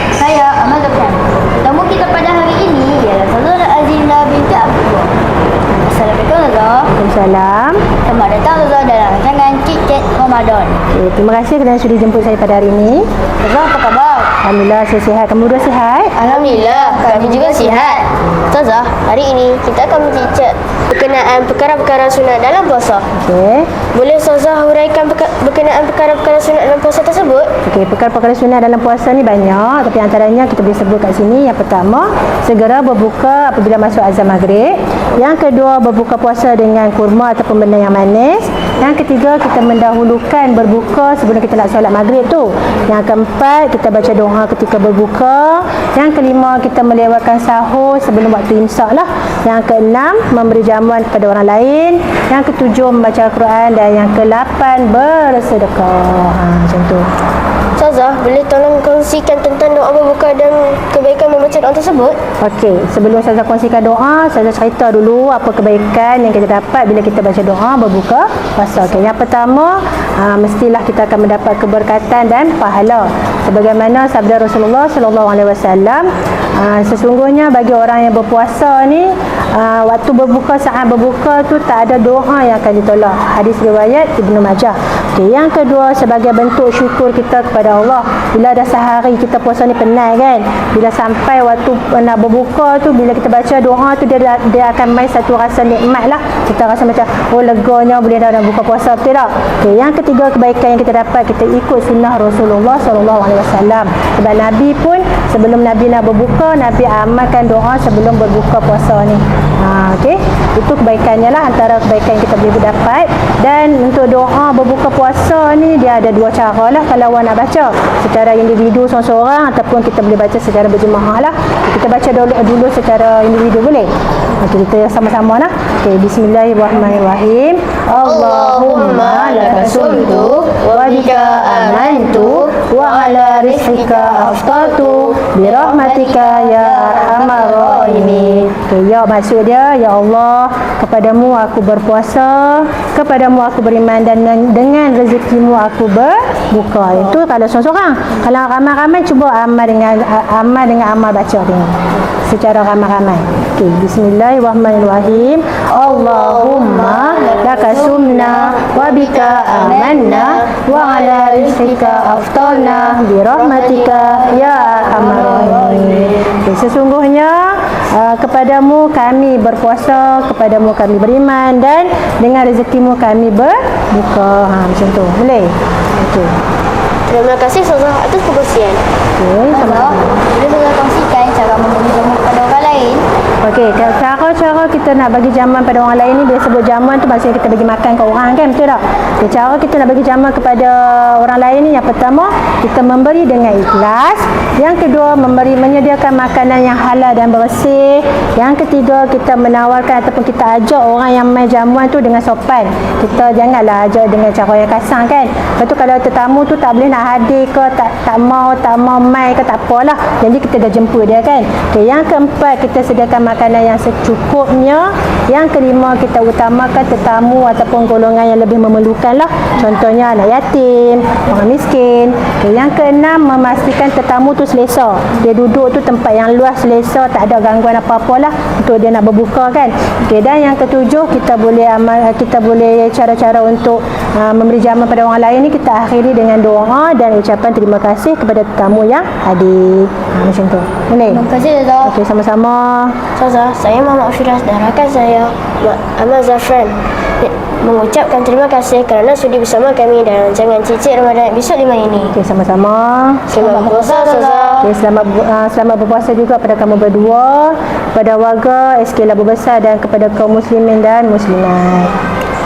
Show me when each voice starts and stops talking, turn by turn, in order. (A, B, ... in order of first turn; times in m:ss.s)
0:00.2-0:05.1 A
0:05.8-0:06.9 A
0:06.9-0:07.8 B
0:08.0-0:10.8 A
0:10.9-0:13.1 B
0:13.4-0:14.3 A
0:14.4-0:16.2 B
0:16.2-0:23.1 C
0:16.2-0:18.1 A
0:23.1-0:23.7 B
0:23.9-0:27.5 C
0:27.6-0:57.1 B
0:57.8-1:02.2 C
1:02.4-2:56.4 B
2:07.9-2:15.3 C
2:15.4-2:18.4 A
2:35.7-2:44.8 C
2:37.4-2:42.8 A
2:44.4-2:46.2 A
2:57.1-2:58.8 C
2:59.2-3:00.1 B
2:59.5-3:03.0 A
3:03.4-4:01.2 B
4:01.1-4:01.9 A
4:01.8-4:03.0 B
4:03.2-4:12.2 C
4:12.1-4:13.3 B
4:13.3-4:14.7 C
4:13.4-4:14.6 A
4:14.6-4:22.0 B